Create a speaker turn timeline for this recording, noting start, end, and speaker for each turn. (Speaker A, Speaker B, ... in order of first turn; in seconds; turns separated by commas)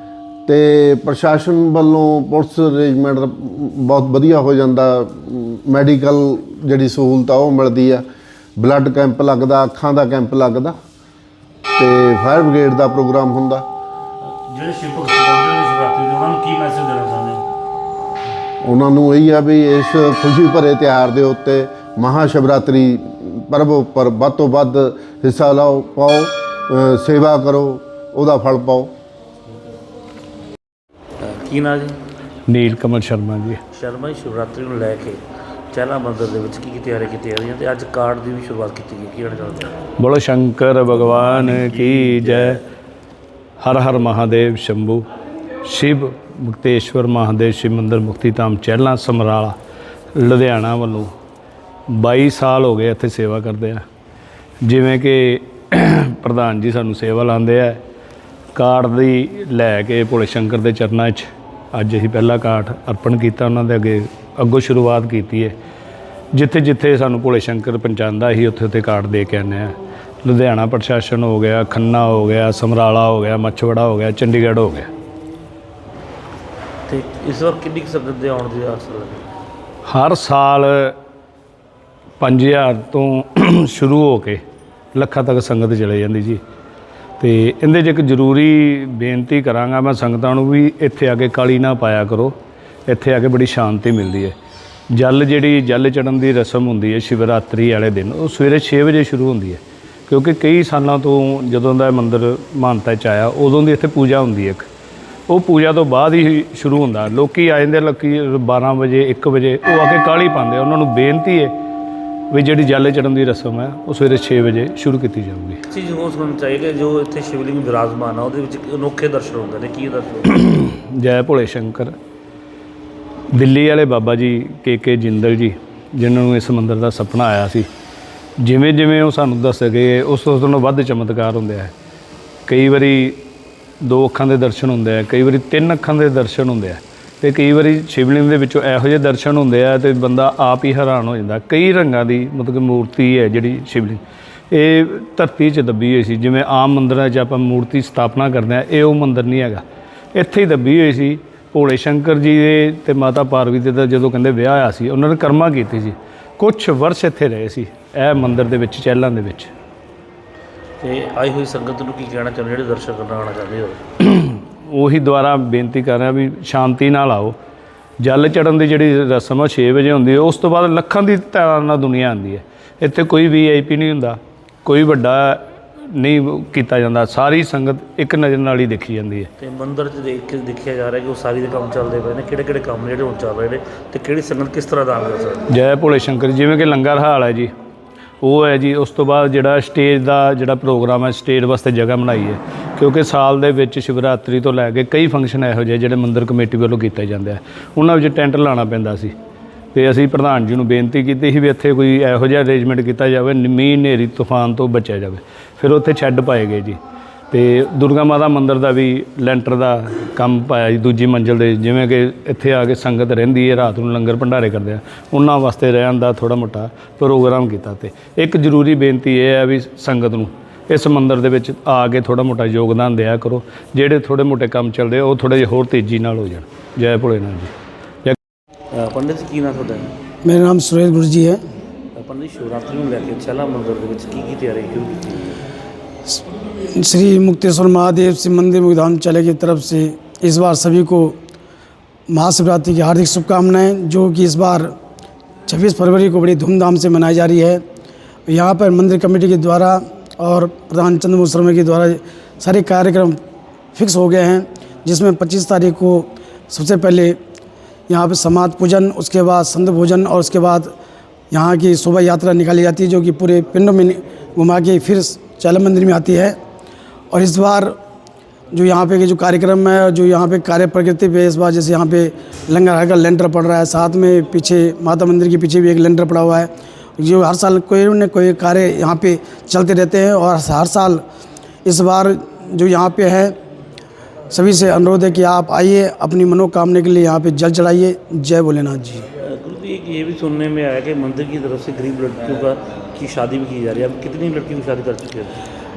Speaker A: 0.5-8.1, Speaker A: 8.6-10.8, Speaker A: 11.8-13.7, Speaker B: 14.2-17.4, Speaker A: 18.6-28.9, Speaker B: 31.2-32.0, Speaker C: 32.5-33.6, Speaker B: 33.7-39.8, Speaker C: 40.0-42.6, Speaker B: 41.4-42.6, Speaker C: 43.6-45.1, Speaker C: 45.6-49.6, Speaker C: 50.1-51.1, Speaker C: 51.9-53.8, Speaker C: 54.6-57.8, Speaker C: 58.5-65.5, Speaker C: 66.3-74.9, Speaker B: 76.9-79.3, Speaker C: 79.8-81.0, Speaker C: 82.2-84.4, Speaker C: 84.9-86.4, Speaker C: 87.2-92.4, Speaker C: 92.9-94.3, Speaker C: 94.9-104.7, Speaker C: 105.3-111.5, Speaker C: 112.3-115.6, Speaker B: 115.7-120.3, Speaker C: 120.3-121.9, Speaker C: 123.3-127.7, Speaker C: 128.4-131.7, Speaker C: 132.5-133.2, Speaker C: 133.8-149.6, Speaker C: 150.1-159.5, Speaker B: 160.8-163.9, Speaker C: 164.0-167.4, Speaker C: 168.0-179.3, Speaker B: 179.4-185.4, Speaker C: 185.5-187.5, Speaker C: 188.2-199.2, Speaker C: 199.7-206.8, Speaker C: 207.3-227.5, Speaker B: 228.7-230.0, Speaker D: 230.2-231.4, Speaker B: 231.9-235.4, Speaker D: 236.7-241.2, Speaker D: 242.1-244.7, Speaker D: 245.5-247.6, Speaker D: 248.3-253.2, Speaker D: 253.7-257.2, Speaker D: 257.9-260.7, Speaker D: 261.3-266.4, Speaker D: 267.1-267.8, Speaker D: 268.5-281.0, Speaker D: 281.6-283.4, Speaker D: 284.3-289.1, Speaker B: 289.2-295.4